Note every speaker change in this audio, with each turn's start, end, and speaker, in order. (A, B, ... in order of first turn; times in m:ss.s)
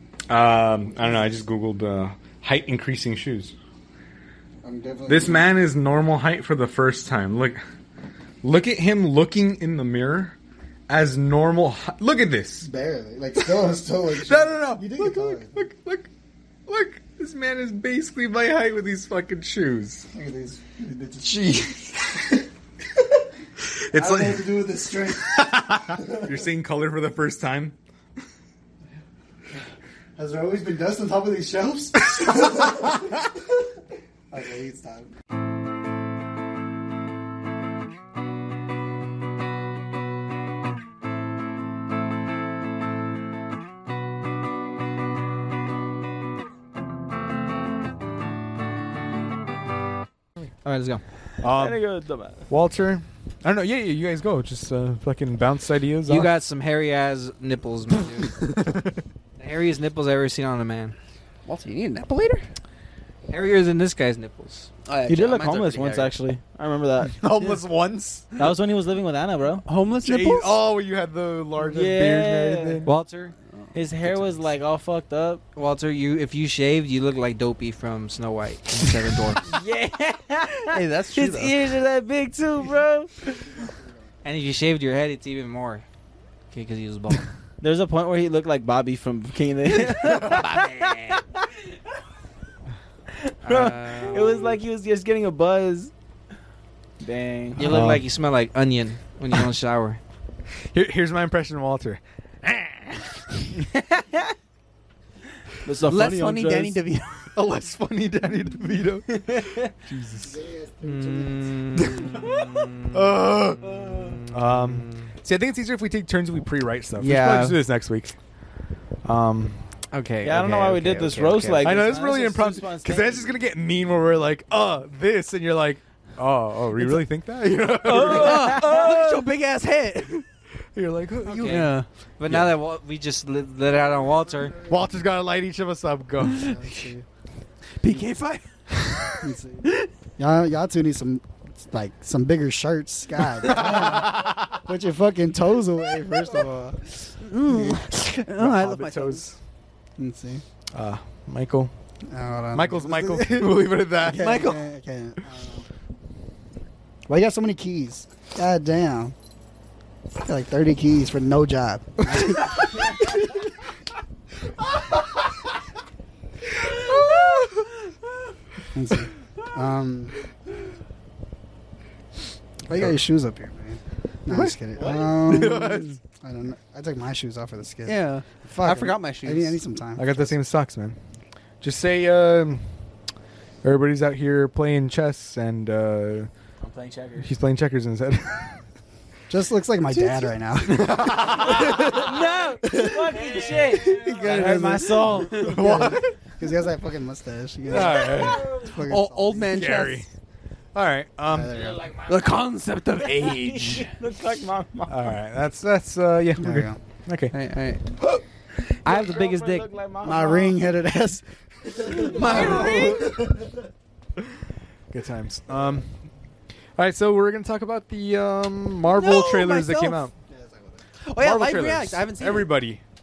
0:00.3-0:03.5 A
0:04.6-0:05.5 B
0:05.1-0:07.6 A
0:08.4-0:10.4 A
0:10.9-0:12.7 A
0:12.6-0:15.7 B
0:14.2-0:16.1 A
0:16.7-0:20.1 A
0:20.1-0:22.2 B
0:23.9-0:24.7 A
0:23.9-0:26.3 B
0:25.3-0:27.8 A
0:30.2-0:33.3 B
0:34.3-0:35.1 B
0:50.6-0:51.0 C
0:51.4-0:51.8 A
0:51.4-0:52.5 D
0:52.5-0:56.3 A
0:56.1-0:58.5 C
0:58.3-0:59.0 A
0:59.4-1:01.0 C
1:01.5-1:02.4 E
1:03.3-1:04.7 C
1:04.9-1:06.1 E
1:05.1-1:07.2 D
1:07.1-1:08.4 A
1:08.4-1:09.6 D
1:09.6-1:10.6 E
1:10.0-1:13.0 A
1:11.6-1:12.9 D
1:12.8-1:13.4 C
1:13.7-1:15.4 D
1:15.6-1:19.5 C
1:19.5-1:23.3 D
1:20.7-1:21.6 E
1:24.2-1:25.8 C
1:26.5-1:27.3 C
1:27.6-1:30.9 D
1:29.8-1:31.2 C
1:33.2-1:35.9 D
1:33.4-1:34.6 C
1:37.0-1:37.6 D
1:37.6-1:38.0 A
1:37.6-1:40.0 C
1:40.7-1:43.6 A
1:43.7-1:44.3 D
1:45.6-1:46.8 D
1:45.9-1:47.3 E
1:47.3-1:50.4 A
1:49.1-1:49.7 D
1:50.2-1:51.5 B
1:50.8-1:55.1 C
1:51.9-1:52.3 A
1:52.9-1:58.2 A
1:57.0-1:57.6 E
1:59.0-1:59.6 A
1:59.9-2:01.8 C
2:00.2-2:03.4 D
2:01.6-2:08.9 A
2:07.8-2:10.2 E
2:07.9-2:09.1 D
2:10.7-2:12.6 A
2:11.2-2:14.6 C
2:11.3-2:11.9 E
2:14.6-2:16.8 A
2:16.3-2:17.1 B
2:17.8-2:18.5 E
2:19.2-2:26.9 B
2:23.5-2:24.6 A
2:27.2-2:29.3 E
2:27.5-2:27.8 B
2:28.4-2:29.4 A
2:30.0-2:30.4 B
2:30.7-2:31.7 A
2:32.1-2:35.6 B
2:32.5-2:34.4 A
2:34.1-2:34.6 E
2:37.1-2:39.2 B
2:40.2-2:43.1 B
2:48.7-2:50.2 B
2:52.7-3:00.4 B
2:54.3-2:54.6 A
2:54.8-2:55.2 D
2:55.3-2:55.9 A
2:57.9-2:59.6 E
3:00.0-3:01.0 A
3:01.6-3:02.6 A
3:03.6-3:06.3 A
3:06.6-3:07.3 D
3:07.2-3:08.6 A
3:09.3-3:12.0 B
3:10.7-3:12.1 A
3:11.5-3:15.7 D
3:12.6-3:19.7 B
3:15.3-3:16.2 A
3:17.7-3:18.6 A
3:18.8-3:20.0 E
3:19.5-3:20.1 A
3:20.8-3:21.6 A
3:21.3-3:21.9 B
3:21.9-3:23.9 E
3:23.1-3:25.1 D
3:24.9-3:27.3 A
3:26.4-3:26.8 B
3:27.3-3:27.8 E
3:28.8-3:29.7 C
3:28.8-3:30.6 D
3:30.0-3:33.6 B
3:32.0-3:33.2 E
3:34.9-3:35.9 A
3:36.8-3:40.1 A
3:38.8-3:40.0 E
3:40.2-3:40.8 B
3:41.0-3:42.6 E
3:41.2-3:42.8 A